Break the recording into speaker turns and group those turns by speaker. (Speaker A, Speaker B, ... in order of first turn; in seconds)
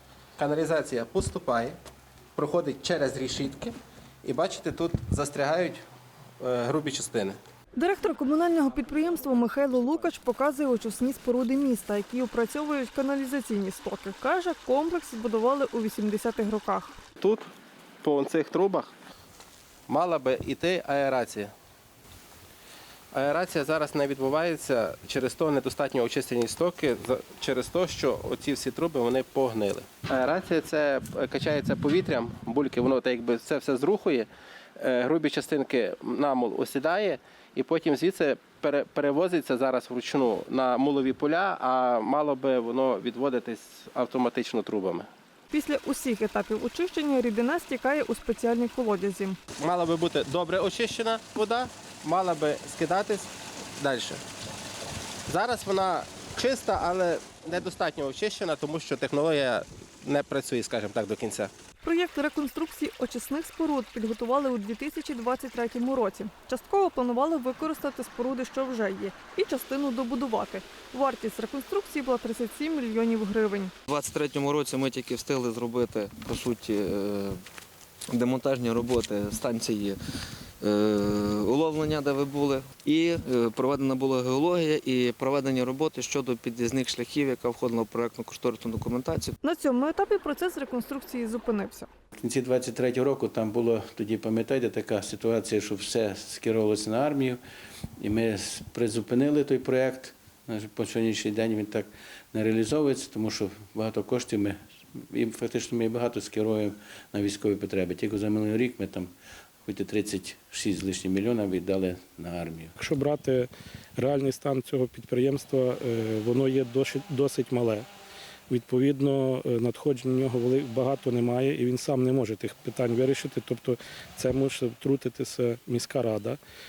Speaker A: 0.4-1.8, 2.4-5.8, 6.4-7.4, 8.8-9.8, 17.2-17.5, 18.0-18.9, 19.9-21.5, 23.1-45.1, 49.6-54.2, 55.3-61.5
Speaker B: 7.8-16.9, 45.5-49.4, 61.8-73.7, 89.4-91.9
Speaker C: 73.9-77.4, 78.1-80.0, 80.6-89.3
Speaker D: 92.2-97.4, 98.0-109.1, 109.7-112.7
Speaker E: 112.8-117.9, 118.5-126.4